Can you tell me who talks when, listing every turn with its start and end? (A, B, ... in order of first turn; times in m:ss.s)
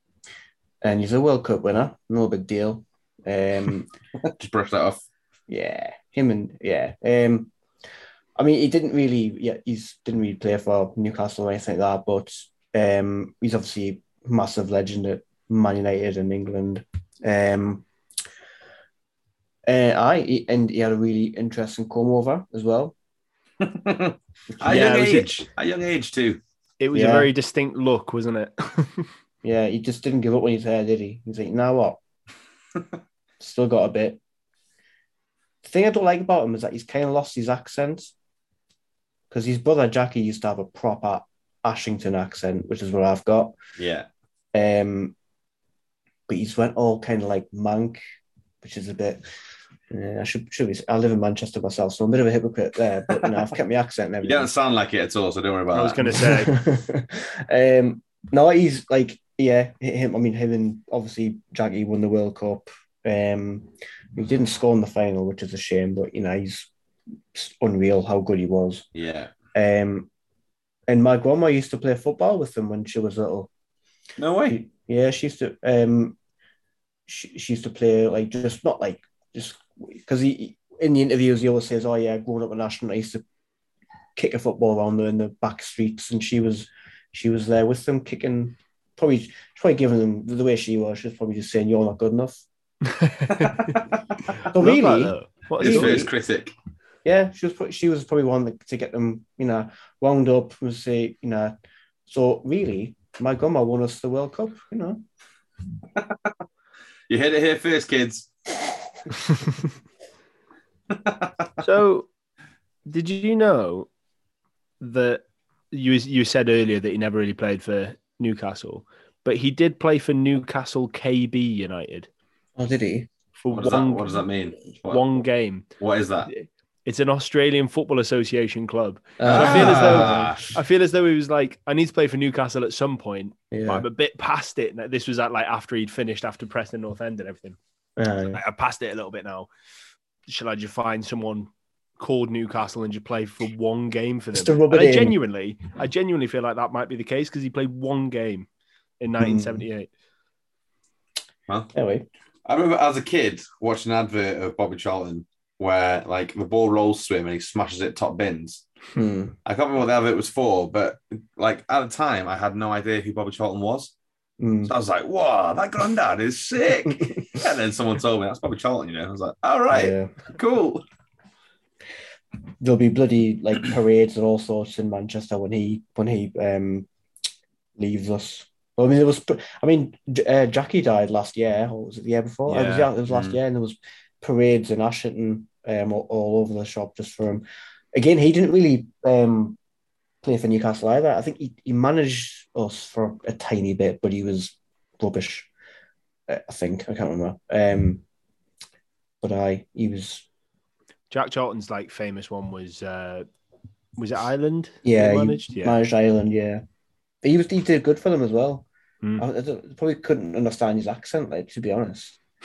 0:00.8-0:03.9 A
0:04.2-0:05.0 B
0:05.5-0:07.5 A
0:08.4-0:17.8 A
0:19.7-0:23.0 A
0:23.6-0:26.4 B
0:24.5-0:24.9 A
0:24.7-0:25.4 C
0:26.8-0:29.1 C
0:26.9-0:27.3 A
0:29.4-0:32.0 A
0:33.4-0:34.2 A
0:35.6-0:38.1 A
0:39.3-0:43.5 A
0:43.8-0:44.1 B
0:44.5-0:45.2 A
0:46.3-0:48.0 A
0:48.6-0:49.2 A
0:49.9-0:54.5 A
0:54.2-0:56.2 B
0:55.7-0:56.6 C
0:56.2-1:06.7 A
1:07.3-1:08.9 A
1:09.0-1:09.3 B
1:09.5-1:10.1 A
1:10.9-1:13.5 A
1:14.2-1:14.6 B
1:14.5-1:16.2 A
1:17.1-1:23.2 A
1:24.2-1:32.4 A
1:32.9-1:33.7 C
1:33.3-1:34.4 B
1:34.4-1:36.1 A
1:34.6-1:36.1 C
1:35.6-1:36.5 B
1:37.0-1:41.5 A
1:42.1-1:45.0 A
1:46.0-1:46.3 B
1:47.1-1:48.3 B
1:50.9-1:51.3 B
1:51.6-1:52.1 C
1:52.9-1:53.9 C
1:54.8-2:02.1 C
2:02.6-2:03.1 A
2:03.4-2:04.2 C
2:03.5-2:05.2 B
2:04.9-2:05.7 C
2:05.8-2:06.3 B
2:06.3-2:17.6 C
2:09.2-2:10.4 A
2:09.2-2:10.5 B
2:13.5-2:13.8 A
2:18.0-2:18.4 A
2:18.3-2:19.5 C
2:20.3-2:28.5 C
2:24.3-2:25.2 A
2:29.0-2:29.9 C
2:29.2-2:29.6 A
2:31.7-2:32.1 A
2:32.5-2:38.6 B
2:38.9-2:39.4 A
2:39.4-2:43.9 B
2:44.4-2:44.7 A
2:44.6-2:50.8 B
2:49.7-2:50.1 A
2:52.6-2:56.9 A
2:57.8-3:09.6 A
3:02.5-3:03.4 B
3:10.2-3:15.5 A
3:16.3-3:18.0 A
3:19.2-3:20.2 A
3:21.1-3:23.3 C
3:24.0-3:25.8 C
3:24.8-3:26.6 A
3:27.2-3:28.7 A
3:29.2-3:32.2 A